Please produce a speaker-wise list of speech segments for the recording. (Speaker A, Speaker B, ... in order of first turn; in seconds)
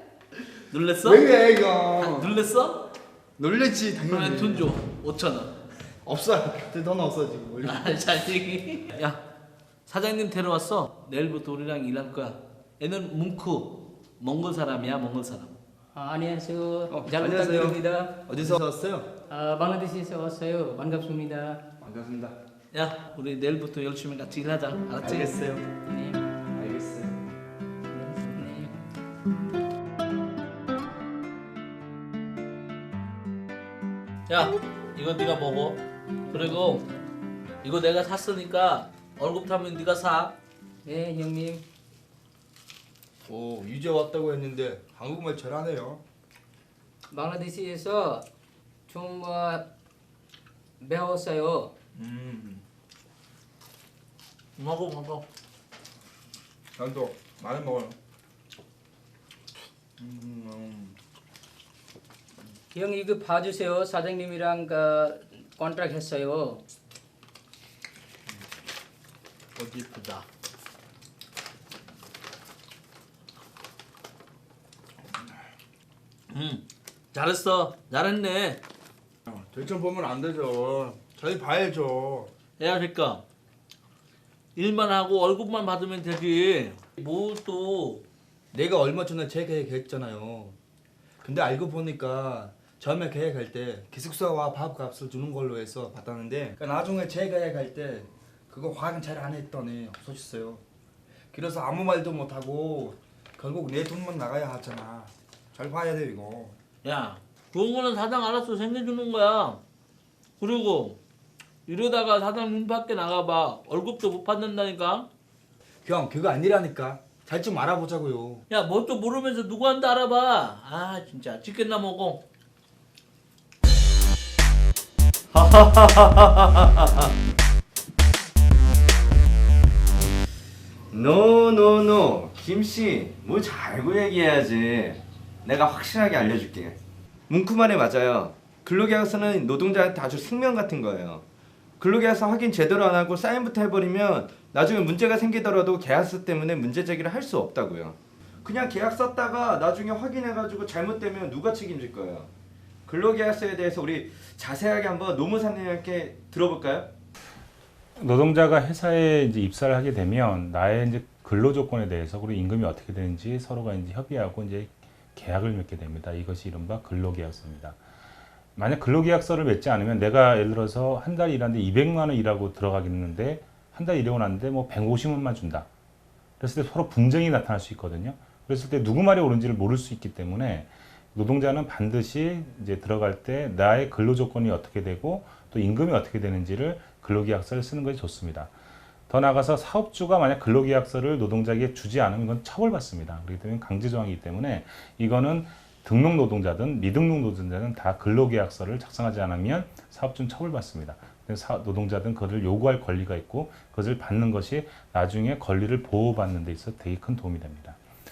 Speaker A: 0.7-1.3, 2.0-2.9, 4.1-5.5, 7.6-9.2, 9.9-15.6, 22.7-25.4, 34.3-36.8, 37.6-40.3, 54.6-55.2, 69.6-70.2, 76.3-78.6, 82.6-83.2, 84.5-88.0, 106.8-109.6, 110.4-111.0, 111.7-115.1, 118.5-122.2
Speaker B: 1.0-2.3, 3.4-4.7, 6.0-8.0, 16.9-19.1, 21.8-22.4, 25.0-25.7, 26.6-27.1, 43.3-46.0, 52.0-52.6, 56.8-58.0, 60.0-61.0, 79.2-82.3, 88.5-90.5, 91.2-100.6, 101.3-106.6, 115.8-118.4
Speaker C: 15.9-18.5, 19.3-21.6, 25.9-26.2, 27.9-28.7, 40.8-41.6, 47.1-48.2, 48.9-49.7, 50.8-51.7, 62.7-66.6
Speaker D: 125.3-127.1, 130.9-136.8, 137.3-141.2, 141.8-152.3, 152.9-156.9
Speaker E: 158.0-167.8, 168.6-175.7, 176.4-188.5, 189.1-207.8